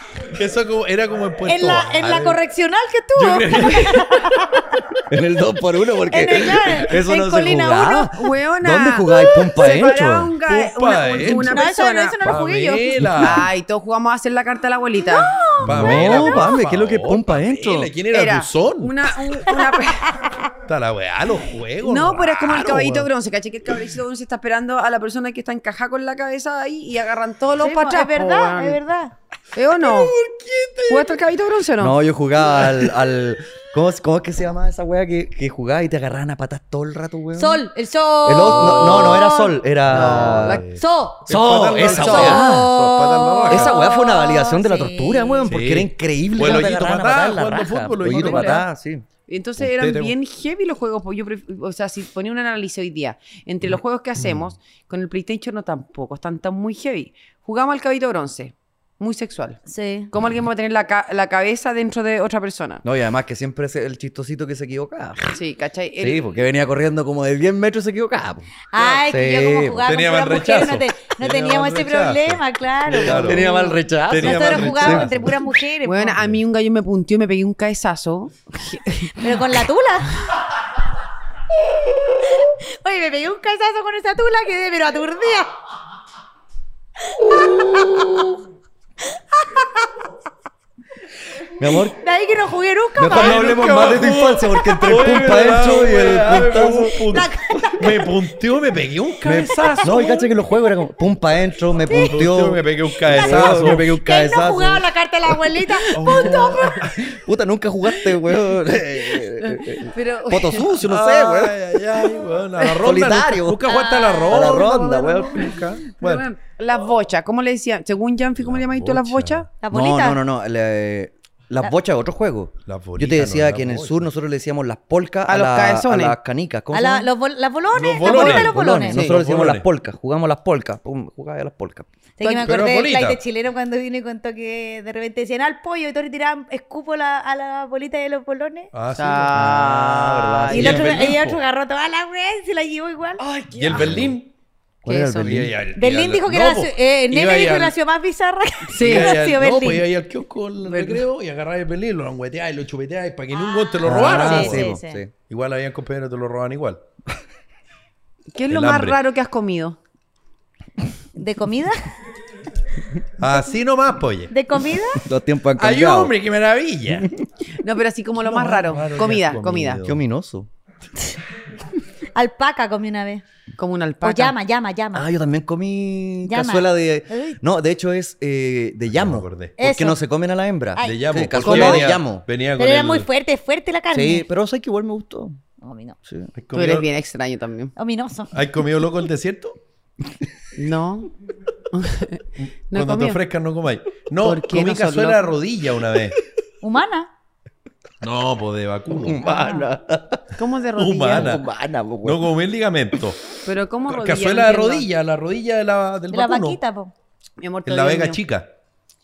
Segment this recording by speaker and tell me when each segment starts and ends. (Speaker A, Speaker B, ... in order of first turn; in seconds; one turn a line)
Speaker A: 0.3-2.4
Speaker B: 1.4-4.8
Speaker A: 3.1-4.5
Speaker C: 5.1-10.3
Speaker B: 6.0-8.1
Speaker D: 8.1-12.2
Speaker A: 10.4-11.6
Speaker B: 11.2-13.2
Speaker A: 12.2-13.5
Speaker D: 13.2-15.4
Speaker B: 15.0-16.4
Speaker A: 15.6-19.1
Speaker C: 15.6-17.9
Speaker D: 18.1-20.3
Speaker B: 20.1-20.4
Speaker A: 20.7-23.1
Speaker D: 21.8-28.8
Speaker B: 27.6-29.1
Speaker D: 29.5-30.1
Speaker A: 29.8-31.2
Speaker D: 30.9-32.0
Speaker C: 31.8-37.6
Speaker B: 37.3-39.6
Speaker C: 38.2-40.6
Speaker A: 38.4-39.3
Speaker A: 39.8-43.8
Speaker D: 39.9-40.7
Speaker B: 40.7-41.2
Speaker C: 41.3-42.7
Speaker B: 41.9-45.5
Speaker C: 43.5-49.0
Speaker A: 45.4-48.6
Speaker D: 48.0-48.6
Speaker D: 49.3-62.8
Speaker A: 49.6-50.1
Speaker B: 59.7-60.1
Speaker C: 62.8-65.4
Speaker D: 65.3-66.3
Speaker C: 66.0-68.5
Speaker B: 68.7-76.2
Speaker C: 69.0-69.9
Speaker A: 69.8-73.5
Speaker C: 72.9-75.2
Speaker A: 74.1-75.3
Speaker D: 75.8-79.4
Speaker B: 79.1-80.2
Speaker B: 82.3-85.5
Speaker B: 87.4-88.0
Speaker C: 87.4-88.1
Speaker B: 89.4-89.9
Speaker C: 91.6-92.0
Speaker B: 91.9-93.4
Speaker C: 93.0-97.7
Speaker A: 93.1-100.3
Speaker B: 97.1-98.0
Speaker C: 99.2-104.9
Speaker B: 101.9-102.2
Speaker A: 102.0-104.0
Speaker B: 103.1-106.8
Speaker D: 105.9-106.4
Speaker A: 105.9-107.1
Speaker C: 106.1-111.6
Speaker D: 109.4-110.7
Speaker A: 110.8-116.3
Speaker C: 112.7-113.7
Speaker B: 113.7-114.5
Speaker C: 114.3-115.6
Speaker D: 114.5-119.5
Speaker A: 118.4-119.5
Speaker B: 119.6-120.2
Speaker C: 119.7-127.1
Speaker A: 122.7-124.1
Speaker D: 125.2-126.2
Speaker B: 126.7-129.0
Speaker A: 127.7-129.7
Speaker D: 128.0-128.3
Speaker C: 128.1-131.9
Speaker B: 132.2-138.7
Speaker A: 132.3-133.2
Speaker A: 138.7-139.7
Speaker D: 138.9-141.0
Speaker C: 139.3-140.9
Speaker A: 140.5-141.4
Speaker B: 140.5-143.2
Speaker D: 143.2-144.0
Speaker A: 143.5-144.3
Speaker C: 143.7-144.1
Speaker C: 144.8-145.5
Speaker D: 144.9-145.4
Speaker A: 145.2-147.7
Speaker B: 145.8-149.8
Speaker D: 148.7-149.1
Speaker A: 148.8-154.7
Speaker D: 150.6-151.0
Speaker B: 153.4-155.0
Speaker C: 153.8-155.1
Speaker A: 155.3-156.8
Speaker D: 158.3-159.8
Speaker A: 158.5-159.0
Speaker B: 161.2-161.9
Speaker A: 163.2-164.3
Speaker B: 164.3-165.0
Speaker C: 165.0-166.1
Speaker A: 165.6-167.1
Speaker D: 167.5-169.8
Speaker A: 168.2-170.0
Speaker C: 169.8-170.5
Speaker B: 172.1-173.2
Speaker D: 173.6-174.3
Speaker B: 174.0-175.1
Speaker C: 174.9-182.2
Speaker B: 176.2-177.4
Speaker A: 178.9-179.5
Speaker B: 179.6-180.0
Speaker B: 180.8-181.8
Speaker A: 180.8-183.1
Speaker D: 181.4-181.8
Speaker B: 182.6-184.2
Speaker C: 183.9-185.4
Speaker B: 185.6-186.0
Speaker C: 186.0-186.3
Speaker A: 186.4-186.9
Speaker D: 186.5-187.7
Speaker B: 187.8-188.3
Speaker A: 188.3-189.6
Speaker D: 190.6-191.1
Speaker D: 191.7-193.2
Speaker A: 192.4-196.2
Speaker D: 194.2-195.3
Speaker B: 196.6-197.1
Speaker A: 198.0-199.2
Speaker C: 198.9-200.2
Speaker B: 199.2-199.7
Speaker D: 200.4-201.4
Speaker A: 200.7-201.4
Speaker C: 201.1-202.3
Speaker A: 202.0-203.3
Speaker D: 203.4-204.9
Speaker A: 203.9-206.6
Speaker B: 206.1-206.9
Speaker D: 207.4-208.2
Speaker A: 207.6-208.5